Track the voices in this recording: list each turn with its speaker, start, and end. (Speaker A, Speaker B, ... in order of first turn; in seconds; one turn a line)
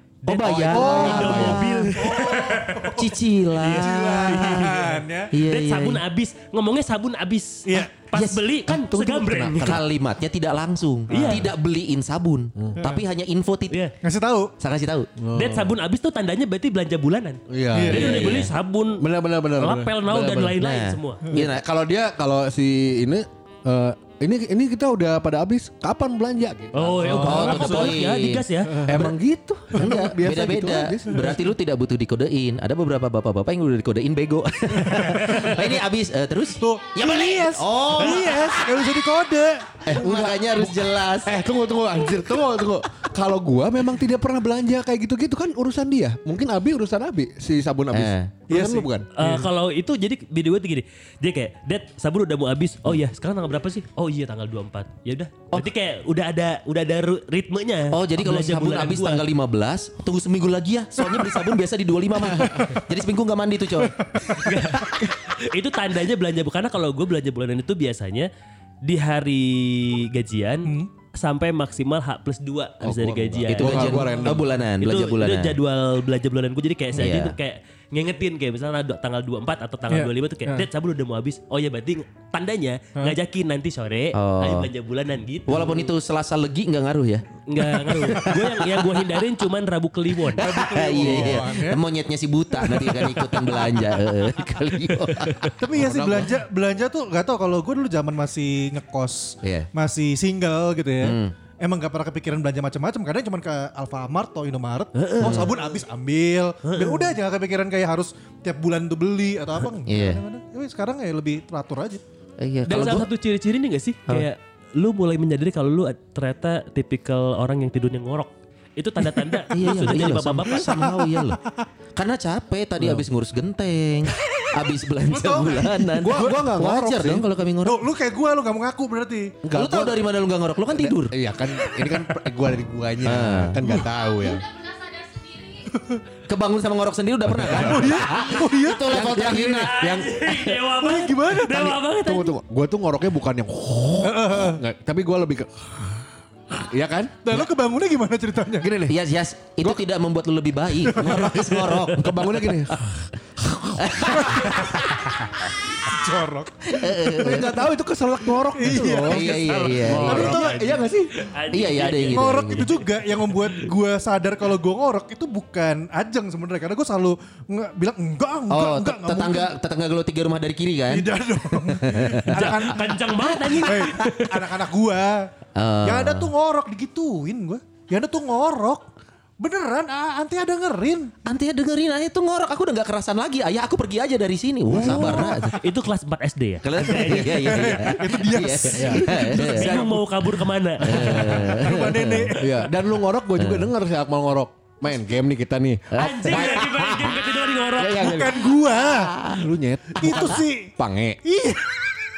Speaker A: 0.2-3.0
Speaker B: 0.2-6.0
Speaker C: 0.4-1.9
Speaker D: 0.5-5.3
Speaker A: 3.6-9.8
Speaker B: 8.1-8.4
Speaker C: 8.7-9.8
Speaker B: 9.6-13.8
Speaker A: 11.1-11.5
Speaker D: 14.0-14.5
Speaker B: 14.6-15.1
Speaker C: 15.2-15.8
Speaker A: 15.3-19.1
Speaker C: 17.5-18.4
Speaker D: 17.7-18.3
Speaker B: 17.9-18.5
Speaker C: 19.0-20.6
Speaker A: 19.6-21.3
Speaker B: 20.6-21.6
Speaker C: 21.3-27.8
Speaker A: 26.7-29.1
Speaker D: 27.0-27.9
Speaker B: 27.2-28.5
Speaker D: 28.7-29.1
Speaker C: 28.9-31.4
Speaker B: 29.7-38.9
Speaker D: 34.9-35.8
Speaker E: 36.6-36.9
Speaker D: 36.6-39.9
Speaker B: 39.9-41.4
Speaker C: 39.9-49.1
Speaker B: 47.9-48.3
Speaker D: 48.5-49.5
Speaker A: 49.2-59.2
Speaker B: 57.9-64.0
Speaker D: 62.4-62.8
Speaker D: 64.2-64.6
Speaker A: 64.3-68.3
Speaker A: 68.8-74.1
Speaker C: 72.8-74.5
Speaker B: 73.5-75.6
Speaker D: 73.7-74.4
Speaker A: 74.8-85.9
Speaker B: 77.0-77.3
Speaker D: 79.9-80.7
Speaker B: 84.1-84.7
Speaker B: 85.5-88.9
Speaker A: 87.5-90.5
Speaker D: 90.4-91.8
Speaker B: 90.4-95.5
Speaker D: 92.6-94.0
Speaker D: 95.6-112.0
Speaker C: 95.7-96.4
Speaker B: 99.4-99.7
Speaker B: 101.0-101.3
Speaker A: 105.0-105.5
Speaker B: 105.2-105.6
Speaker A: 106.6-107.1
Speaker B: 109.8-110.2
Speaker B: 112.4-113.1
Speaker A: 112.7-120.9
Speaker B: 119.5-121.4
Speaker D: 120.7-121.5
Speaker B: 122.0-127.8
Speaker C: 122.8-123.0
Speaker D: 125.0-126.4
Speaker C: 126.0-127.3
Speaker D: 127.7-129.4
Speaker C: 129.4-130.1
Speaker B: 129.5-131.2
Speaker C: 130.7-134.4
Speaker B: 133.0-133.6
Speaker D: 133.6-133.9
Speaker E: 133.8-135.8
Speaker B: 136.3-139.8
Speaker C: 137.3-138.2
Speaker D: 137.5-139.4
Speaker C: 138.9-140.4
Speaker A: 139.4-142.3
Speaker D: 140.7-141.8
Speaker C: 142.0-146.0
Speaker D: 144.0-144.6
Speaker C: 146.5-147.4
Speaker D: 147.2-148.8
Speaker C: 148.6-149.0
Speaker B: 148.9-152.6
Speaker D: 150.9-151.5
Speaker C: 151.9-154.8
Speaker B: 153.8-155.1
Speaker D: 154.1-154.6
Speaker D: 155.8-157.5
Speaker B: 156.7-157.7
Speaker C: 157.1-161.1
Speaker D: 158.5-160.8
Speaker B: 158.8-160.5
Speaker A: 159.1-163.7
Speaker B: 161.5-162.9
Speaker D: 162.1-169.5
Speaker B: 168.5-172.6
Speaker D: 170.9-175.3
Speaker A: 172.2-174.4
Speaker B: 175.6-176.3
Speaker D: 175.8-178.9
Speaker D: 179.4-181.1
Speaker B: 181.2-185.6
Speaker D: 184.7-185.6
Speaker A: 184.8-188.0
Speaker B: 186.6-190.1
Speaker D: 186.8-190.0
Speaker C: 188.7-189.1
Speaker A: 189.1-191.5
Speaker B: 190.8-192.4
Speaker D: 190.9-192.7
Speaker C: 191.0-191.4
Speaker C: 192.4-198.6
Speaker B: 193.4-193.7
Speaker B: 195.9-196.7
Speaker A: 196.0-198.3
Speaker D: 197.9-199.2
Speaker B: 198.9-199.4
Speaker C: 199.2-201.2
Speaker D: 200.0-200.7
Speaker B: 200.1-200.4
Speaker D: 201.2-201.9